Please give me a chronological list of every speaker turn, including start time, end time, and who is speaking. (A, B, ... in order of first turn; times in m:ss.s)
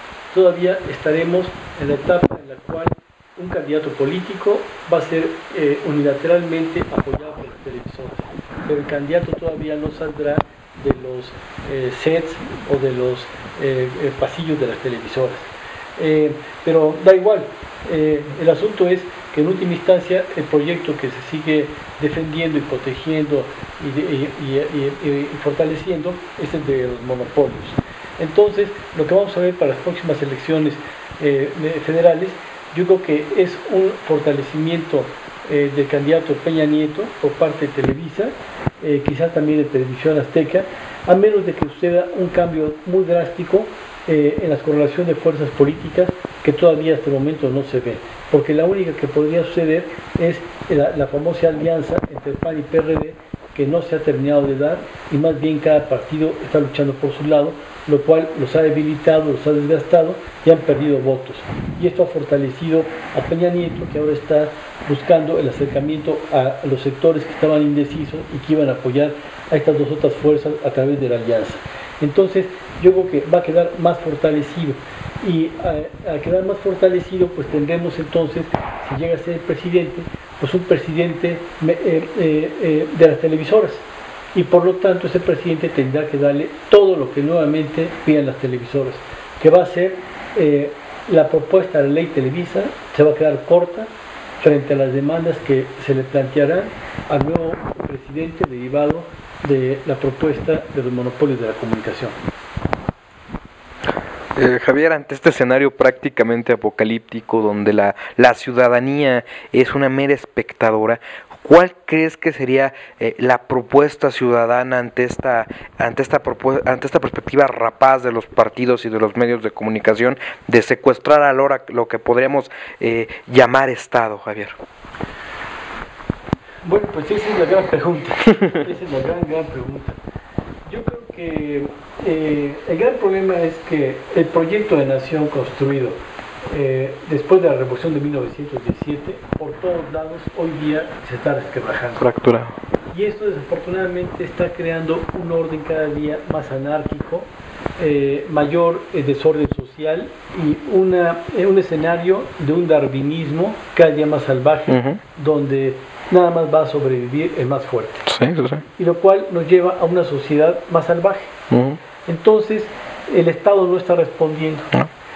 0:00.3-1:33.9 A
1:34.4-1:42.2 A
1:44.4-2:04.6 B
2:06.6-2:10.0 A
2:10.7-2:16.0 A
2:16.5-2:22.1 A
2:22.0-2:22.6 B
2:22.9-2:38.1 A
2:34.7-2:35.0 B
2:38.1-2:38.6 B
2:38.7-2:41.3 A
2:41.5-2:41.8 B
2:42.1-2:44.7 A